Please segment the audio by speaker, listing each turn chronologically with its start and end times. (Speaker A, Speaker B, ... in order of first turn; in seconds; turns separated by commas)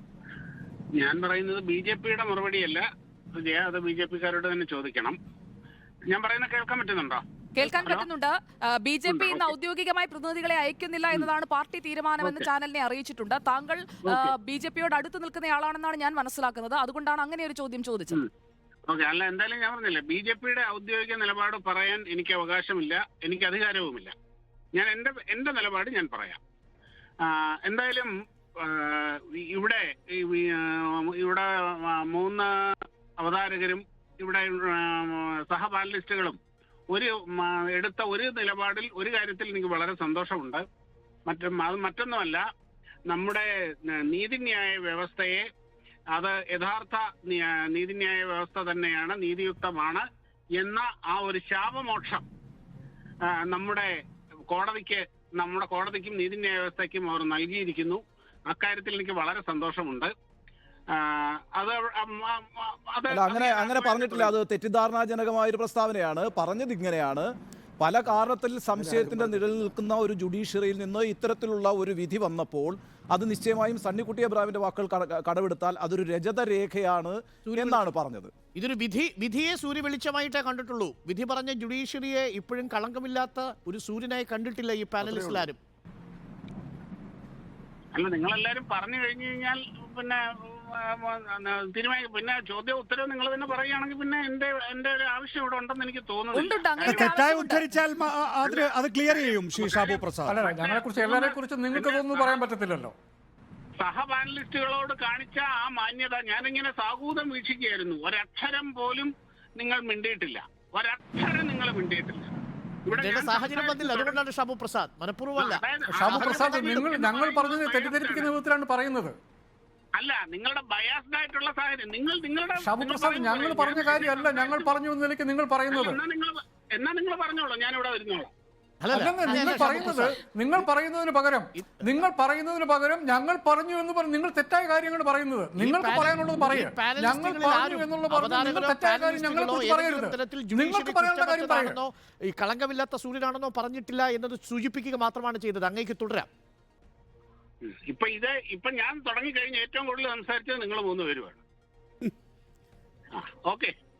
Speaker A: 1.0-2.8, Speaker A: 3.4-5.2, Speaker A: 6.1-8.1, Speaker B: 7.6-18.2, Speaker A: 9.1-9.5, Speaker A: 18.9-24.1, Speaker A: 24.8-26.4, Speaker A: 27.2-36.4, Speaker A: 36.9-40.6, Speaker A: 41.3-42.4, Speaker A: 43.1-45.5, Speaker A: 46.1-50.0, Speaker A: 50.6-52.2, Speaker A: 53.3-53.9, Speaker A: 54.5-60.1, Speaker A: 60.9-64.3, Speaker C: 63.1-67.3, Speaker C: 67.8-78.3, Speaker D: 68.8-69.5, Speaker D: 77.5-77.8, Speaker D: 78.5-85.6, Speaker E: 85.1-85.4, Speaker A: 87.9-97.1, Speaker B: 96.3-97.6, Speaker E: 96.8-100.4, Speaker A: 98.4-102.4, Speaker F: 100.2-102.9, Speaker A: 103.8-112.3, Speaker A: 112.8-114.2, Speaker D: 113.0-116.8, Speaker A: 115.4-118.3, Speaker F: 115.9-119.2, Speaker A: 120.0-124.7, Speaker F: 122.6-126.0, Speaker A: 125.7-128.3, Speaker D: 128.8-130.2, Speaker F: 128.9-141.8, Speaker D: 131.6-132.0, Speaker D: 135.6-146.3, Speaker A: 147.6-151.4, Speaker A: 153.1-153.7